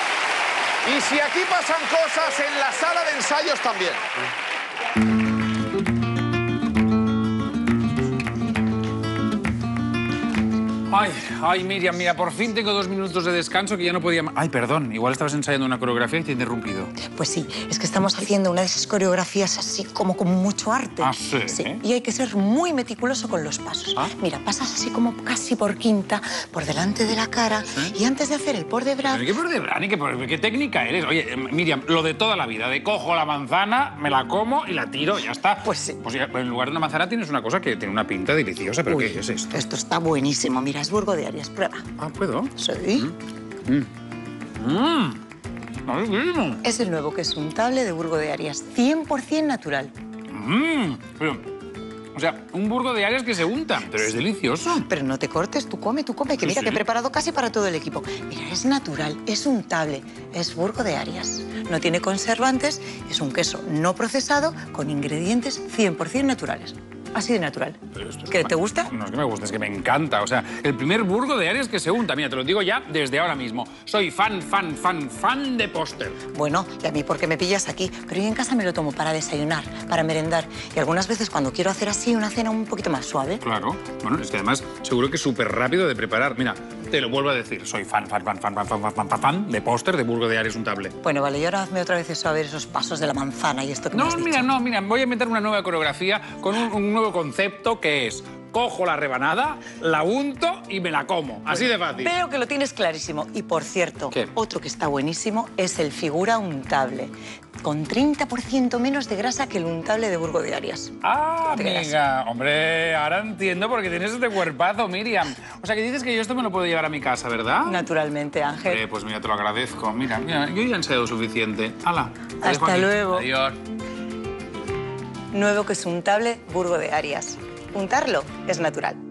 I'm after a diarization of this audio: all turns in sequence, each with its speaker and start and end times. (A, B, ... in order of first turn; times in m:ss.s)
0:00.8-0:04.0 A
0:10.9-0:16.9 B
0:17.0-0:29.3 C
0:21.0-0:21.8 B
0:27.7-0:27.9 B
0:29.0-0:39.6 B
0:35.6-0:36.0 C
0:38.9-0:41.9 C
0:42.0-0:43.0 B
0:42.6-0:43.1 C
0:44.6-0:45.2 B
0:45.8-0:46.6 B
0:46.6-0:49.9 C
0:50.3-0:51.5 B
0:52.1-0:54.9 B
0:54.8-1:08.9 C
0:56.4-0:56.8 B
1:08.0-1:16.2 B
1:16.3-1:23.4 C
1:23.4-1:31.0 B
1:31.0-1:34.5 C
1:33.9-1:42.1 B
1:41.5-1:52.0 C
1:51.0-1:57.9 B
1:57.6-1:58.8 C
1:58.6-2:03.6 B
2:02.4-2:03.3 C
2:05.3-2:09.0 C